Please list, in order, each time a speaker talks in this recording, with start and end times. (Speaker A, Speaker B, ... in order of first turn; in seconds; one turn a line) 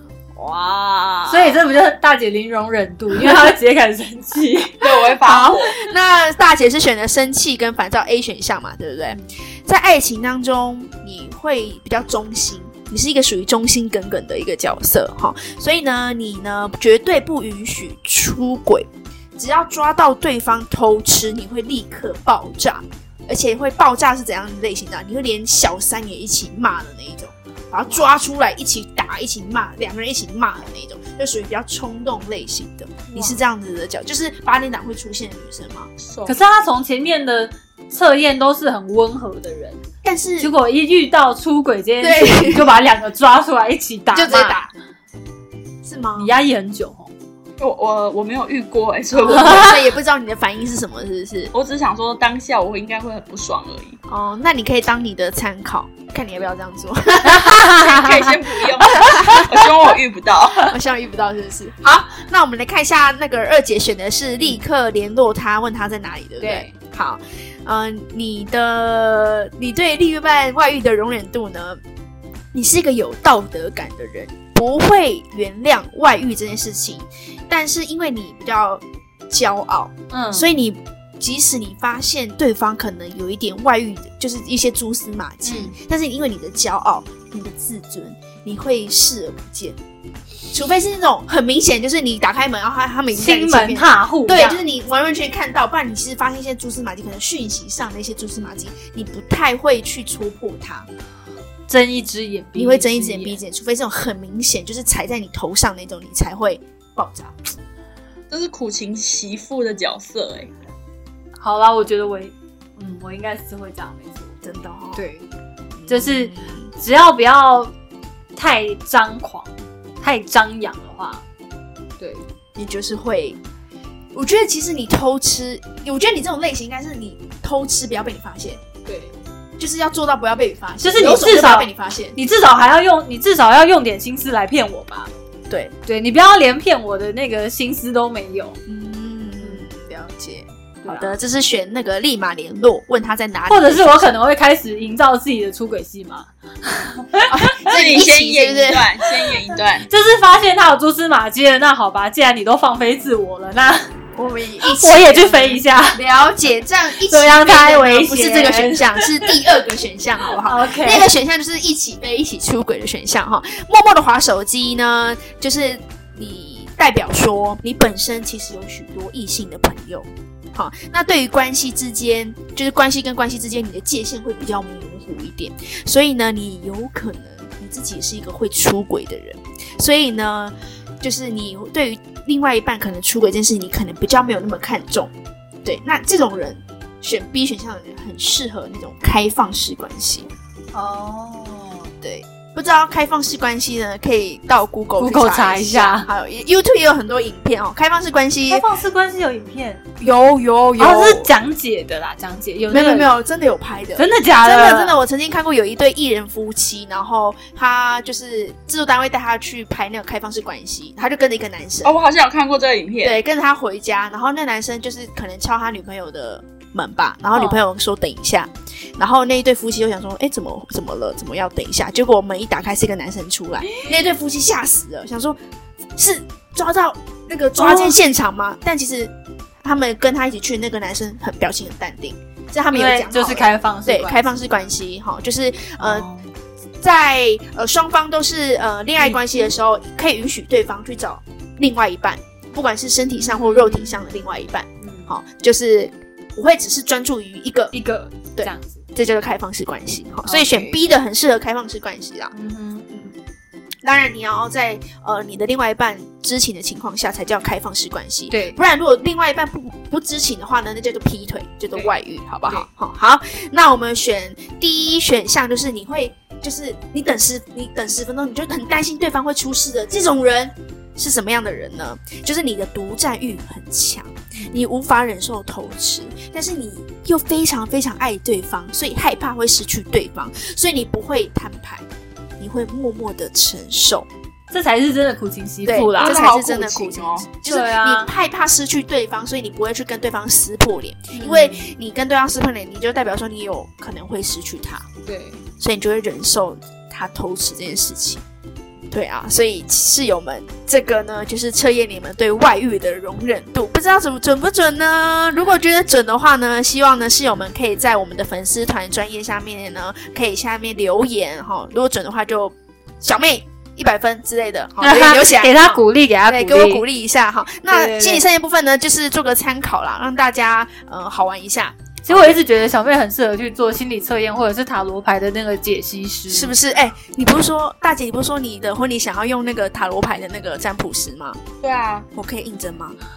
Speaker A: 0.4-1.6
Speaker B: 1.2-4.8
Speaker A: 3.1-3.5
Speaker C: 4.8-5.8
Speaker A: 5.2-35.9
Speaker B: 33.1-33.4
Speaker C: 36.0-36.4
Speaker B: 36.3-39.8
Speaker A: 40.0-40.5
Speaker B: 40.4-44.6
Speaker A: 42.0-42.8
Speaker A: 44.1-44.7
Speaker A: 45.8-46.3
Speaker B: 46.2-47.1
Speaker C: 47.6-49.8
Speaker A: 49.1-51.5
Speaker B: 49.3-49.6
Speaker C: 51.5-54.0
Speaker A: 54.1-57.8
Speaker B: 57.3-58.0
Speaker C: 57.7-60.8
Speaker A: 59.1-59.5
Speaker A: 60.6-71.8
Speaker B: 66.4-66.8
Speaker A: 72.5-89.8
Speaker B: 80.1-80.5
Speaker B: 85.4-85.7
Speaker A: 90.5-100.9
Speaker B: 93.1-94.6
Speaker B: 101.7-103.4
Speaker A: 102.5-107.3
Speaker C: 108.3-110.5
Speaker B: 111.4-114.3
Speaker A: 114.4-115.0
Speaker B: 114.9-115.2
Speaker A: 115.8-116.7
Speaker B: 115.9-117.7
Speaker B: 118.3-121.2
Speaker B: 122.0-122.2
Speaker A: 122.6-123.4
Speaker A: 124.1-128.6
Speaker B: 128.9-129.1
Speaker A: 129.6-132.2
Speaker B: 130.8-135.1
Speaker B: 135.8-138.6
Speaker A: 138.7-144.1
Speaker B: 140.8-141.1
Speaker B: 143.5-147.5
Speaker A: 147.3-148.9
Speaker C: 147.6-149.9
Speaker B: 149.9-153.9
Speaker A: 154.1-185.1
Speaker B: 154.6-156.0
Speaker B: 157.0-159.4
Speaker B: 160.4-161.1
Speaker A: 185.6-190.3
Speaker B: 190.7-191.9
Speaker A: 192.0-198.6
Speaker B: 195.0-196.1
Speaker B: 198.5-199.8
Speaker A: 200.0-201.3
Speaker B: 200.8-203.1
Speaker A: 202.7-211.9
Speaker B: 203.9-205.0
Speaker C: 211.8-213.2
Speaker A: 213.0-225.4
Speaker B: 217.3-217.6
Speaker A: 226.0-229.1
Speaker B: 227.6-228.0
Speaker A: 229.6-236.1
Speaker B: 232.7-234.4
Speaker B: 235.8-236.3
Speaker A: 236.8-247.7
Speaker B: 239.0-239.5
Speaker B: 243.2-244.0
Speaker B: 244.8-245.1
Speaker B: 247.7-248.8
Speaker A: 248.4-252.3
Speaker B: 250.2-250.8
Speaker B: 252.3-253.1
Speaker A: 253.8-281.9
Speaker B: 258.3-258.6
Speaker B: 274.4-274.6
Speaker A: 282.4-284.1
Speaker B: 284.5-286.2
Speaker A: 285.6-294.9
Speaker C: 286.0-287.3
Speaker B: 287.4-288.1
Speaker B: 291.1-291.7
Speaker B: 295.1-295.4
Speaker A: 295.6-298.2
Speaker A: 298.9-322.4
Speaker B: 314.8-316.8
Speaker B: 317.7-318.2
Speaker B: 322.0-326.5
Speaker A: 326.3-331.4
Speaker C: 331.6-332.1
Speaker A: 332.1-333.0